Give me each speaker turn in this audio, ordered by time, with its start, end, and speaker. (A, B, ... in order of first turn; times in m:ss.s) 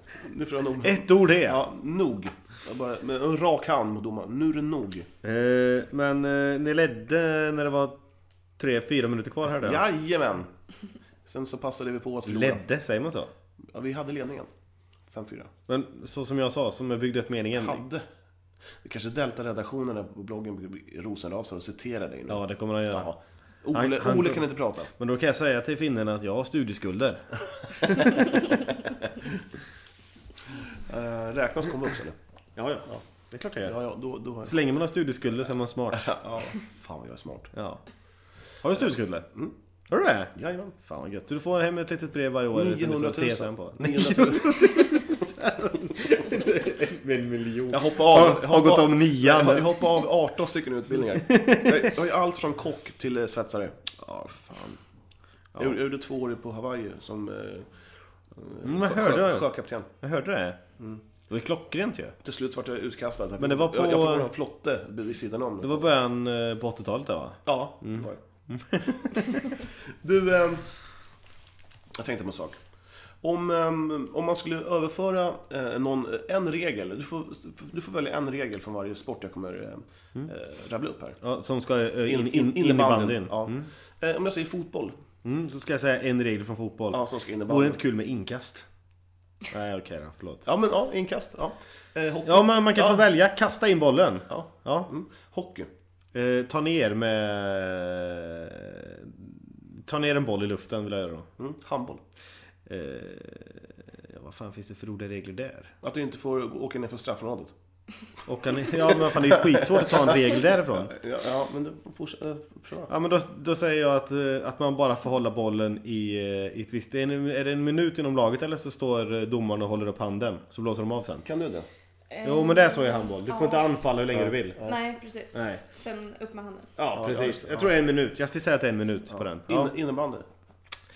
0:00.2-0:05.1 A
0:00.8-0:01.6 B
0:05.2-0:08.0 B
0:08.6-0:09.8 B
0:09.6-0:10.5 A
0:11.2-0:12.6 A
0:12.3-0:13.3 B
0:13.7-0:14.5 A
0:15.1-0:15.5 A
0:15.7-0:17.8 B
0:17.5-0:18.0 A
0:18.8-0:24.9 A
0:22.3-0:23.1 B
0:23.7-0:28.2 B
0:30.8-0:32.2 A
0:32.6-0:33.8 B
0:33.6-0:34.5 A
0:34.4-0:36.1 B
0:35.9-0:37.5 A
0:37.5-0:37.8 B
0:38.6-0:39.3 B
0:39.9-0:49.9 B
0:40.3-0:40.7 A
0:42.5-0:45.1 A
0:47.7-0:53.8 A
0:51.2-0:52.0 B
0:54.0-0:54.8 B
0:55.6-0:57.7 A
0:58.3-0:59.9 A
0:58.6-1:00.6 B
1:01.3-1:02.2 B
1:02.2-1:05.8 A
1:03.4-1:04.3 B
1:05.6-1:09.5 B
1:07.4-1:08.2 A
1:10.0-1:10.7 A
1:12.0-1:12.6 A
1:13.2-1:21.2 A
1:21.2-1:23.7 B
1:22.0-1:25.0 A
1:25.2-1:28.7 B
1:26.9-1:27.8 A
1:29.5-1:30.4 B
1:30.4-1:33.0 A
1:32.2-1:34.9 B
1:34.3-1:35.7 A
1:36.1-1:41.3 B
1:41.4-1:42.0 A
1:42.7-1:45.7 B
1:45.8-1:47.5 A
1:48.2-1:50.9 B
1:48.9-1:50.1 A
1:50.9-1:52.9 A
1:52.9-2:01.2 B
2:01.2-2:01.7 A
2:02.1-2:03.8 C
2:02.2-2:04.6 B
2:04.1-2:04.8 A
2:04.6-2:06.7 C
2:05.3-2:05.6 B
2:06.8-2:09.7 B
2:06.9-2:07.7 A
2:09.1-2:10.2 A